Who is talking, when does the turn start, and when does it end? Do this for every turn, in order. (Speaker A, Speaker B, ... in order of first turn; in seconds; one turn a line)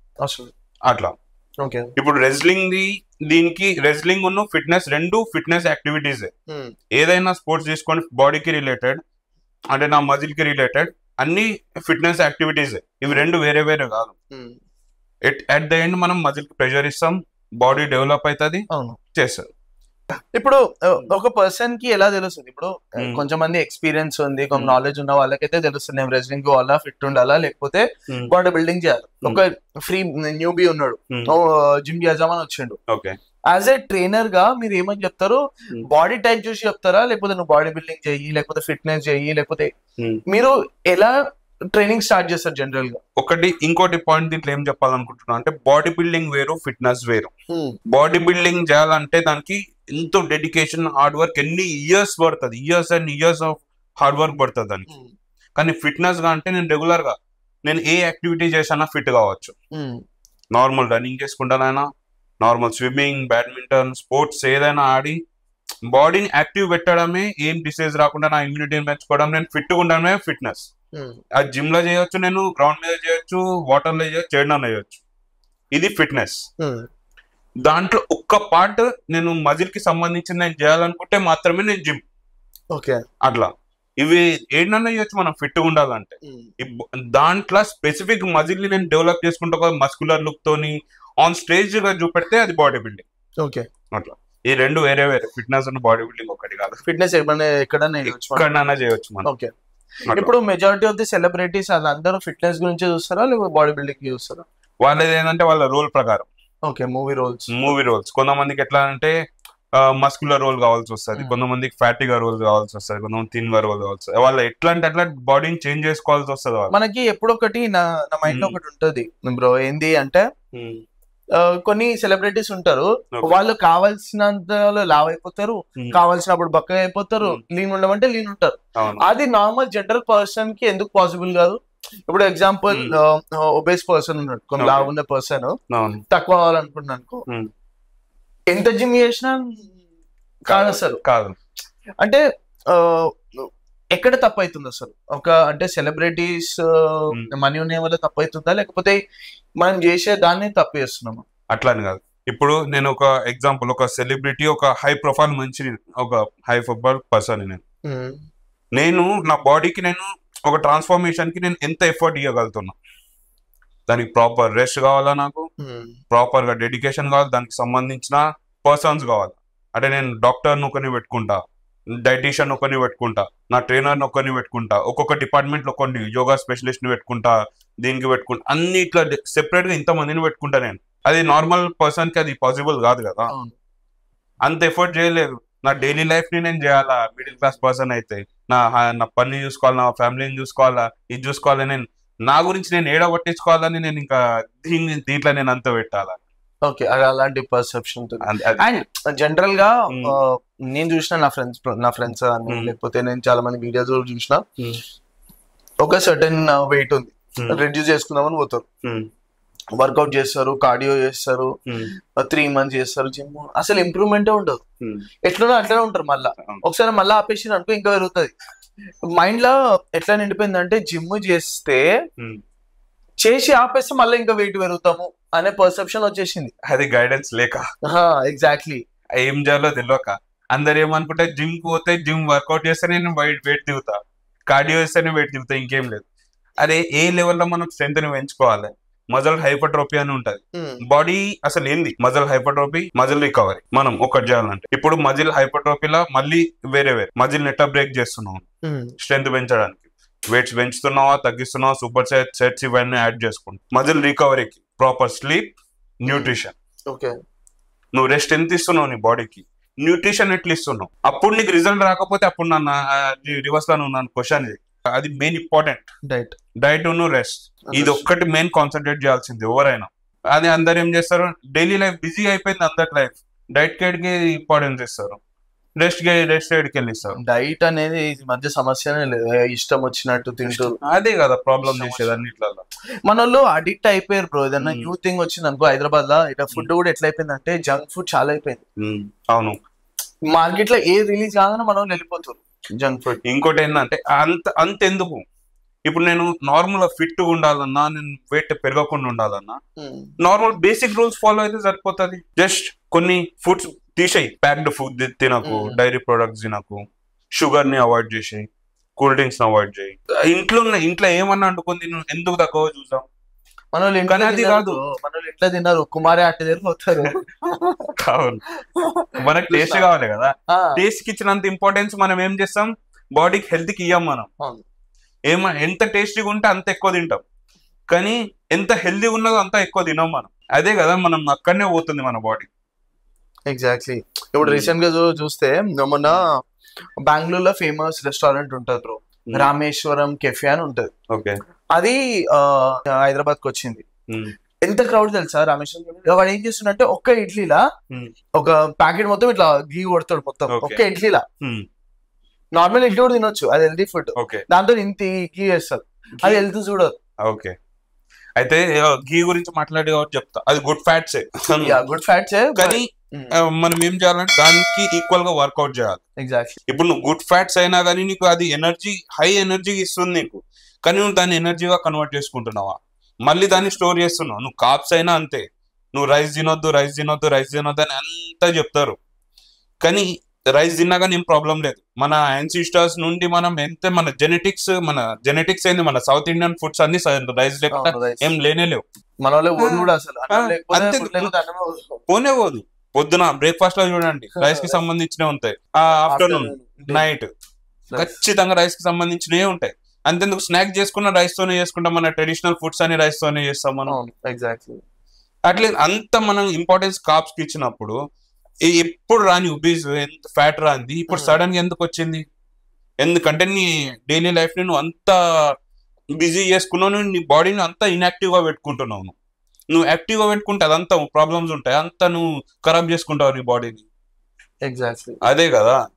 Speaker A: 0.2-0.5
Speaker B: 0.9-1.1
Speaker A: 1.6-1.9
Speaker B: 2.0-6.3
Speaker A: 6.5-6.7
Speaker B: 6.9-9.0
Speaker B: 9.7-14.1
Speaker A: 14.3-14.6
Speaker B: 15.2-19.5
Speaker A: 18.7-19.0
Speaker A: 20.3-32.8
Speaker B: 23.0-23.2
Speaker B: 32.9-33.2
Speaker A: 33.5-39.7
Speaker A: 40.3-41.2
Speaker A: 41.7-43.0
Speaker B: 43.2-47.3
Speaker A: 47.5-47.8
Speaker B: 47.9-54.9
Speaker B: 55.6-59.5
Speaker A: 59.7-60.0
Speaker B: 60.5-61.9
Speaker B: 62.4-65.2
Speaker B: 65.9-70.7
Speaker B: 71.4-75.0
Speaker B: 75.7-76.4
Speaker A: 76.6-76.8
Speaker B: 77.7-82.0
Speaker A: 82.7-83.0
Speaker B: 83.2-93.0
Speaker A: 93.4-93.7
Speaker B: 93.9-96.8
Speaker A: 96.9-98.5
Speaker B: 98.0-99.3
Speaker A: 99.2-99.5
Speaker A: 100.1-104.5
Speaker B: 104.8-106.3
Speaker A: 106.7-107.5
Speaker B: 107.5-109.2
Speaker B: 109.8-116.7
Speaker A: 116.7-120.2
Speaker B: 118.3-118.6
Speaker B: 120.5-120.8
Speaker A: 121.4-135.6
Speaker B: 128.8-129.1
Speaker B: 134.6-134.9
Speaker B: 135.7-136.0
Speaker A: 136.1-137.2
Speaker A: 138.5-139.8
Speaker B: 140.5-141.4
Speaker A: 140.5-141.0
Speaker A: 142.0-149.0
Speaker A: 149.6-151.2
Speaker B: 151.5-157.6
Speaker A: 157.9-158.2
Speaker B: 158.8-162.8
Speaker B: 163.9-165.5
Speaker A: 165.6-166.0
Speaker B: 166.1-171.4
Speaker B: 172.0-183.3
Speaker A: 183.3-183.6
Speaker B: 184.4-196.2
Speaker A: 196.7-204.4
Speaker B: 198.2-198.7
Speaker B: 199.9-200.2
Speaker B: 202.5-202.7
Speaker A: 205.8-208.7
Speaker B: 207.4-207.6
Speaker B: 208.8-209.1
Speaker A: 209.8-211.5
Speaker A: 212.2-214.6
Speaker A: 215.3-218.3
Speaker A: 219.1-221.9
Speaker A: 223.2-226.5
Speaker B: 226.6-227.6
Speaker A: 227.9-228.8
Speaker B: 229.2-234.0
Speaker B: 234.5-236.1
Speaker B: 236.6-248.4
Speaker A: 240.6-240.8
Speaker A: 248.7-248.9
Speaker B: 249.0-256.5
Speaker A: 256.1-256.3
Speaker B: 257.9-265.9
Speaker A: 266.1-266.4
Speaker B: 266.6-275.2
Speaker A: 267.7-268.1
Speaker B: 275.8-277.2
Speaker A: 277.2-280.8
Speaker B: 280.5-282.7
Speaker A: 281.6-282.2
Speaker A: 283.1-288.6
Speaker B: 284.6-284.9
Speaker B: 288.8-289.6
Speaker A: 290.3-293.2
Speaker B: 293.2-295.2
Speaker B: 295.9-299.6
Speaker A: 299.8-300.1
Speaker B: 300.2-306.8
Speaker A: 305.4-305.8
Speaker B: 307.4-313.1
Speaker A: 313.7-317.9
Speaker B: 314.1-314.8
Speaker B: 318.0-318.4
Speaker A: 318.8-319.9
Speaker B: 319.2-324.3
Speaker A: 320.5-320.8
Speaker B: 325.3-327.2
Speaker B: 327.9-332.5
Speaker A: 333.5-336.4
Speaker B: 334.4-334.7
Speaker A: 337.0-340.9
Speaker B: 341.1-341.4
Speaker A: 341.8-343.9
Speaker B: 344.1-344.3
Speaker A: 344.6-347.6
Speaker A: 348.4-351.2
Speaker B: 350.5-350.8
Speaker B: 351.4-351.7
Speaker A: 352.6-356.9
Speaker B: 354.2-354.4
Speaker B: 357.2-357.6
Speaker B: 358.4-361.8
Speaker A: 361.6-363.4
Speaker B: 362.6-366.0
Speaker A: 366.2-366.6
Speaker B: 366.7-379.0
Speaker B: 379.8-388.8
Speaker A: 387.7-388.3
Speaker A: 389.2-392.0
Speaker B: 389.6-391.3
Speaker B: 392.1-397.3
Speaker A: 394.4-394.8
Speaker A: 395.9-397.1
Speaker A: 397.9-398.2
Speaker B: 397.9-403.9
Speaker A: 403.9-404.8
Speaker B: 405.5-408.0
Speaker B: 408.7-412.2
Speaker A: 411.1-411.4
Speaker B: 413.0-415.2
Speaker B: 416.2-419.1
Speaker B: 419.7-423.9
Speaker A: 424.7-425.2
Speaker B: 425.2-425.8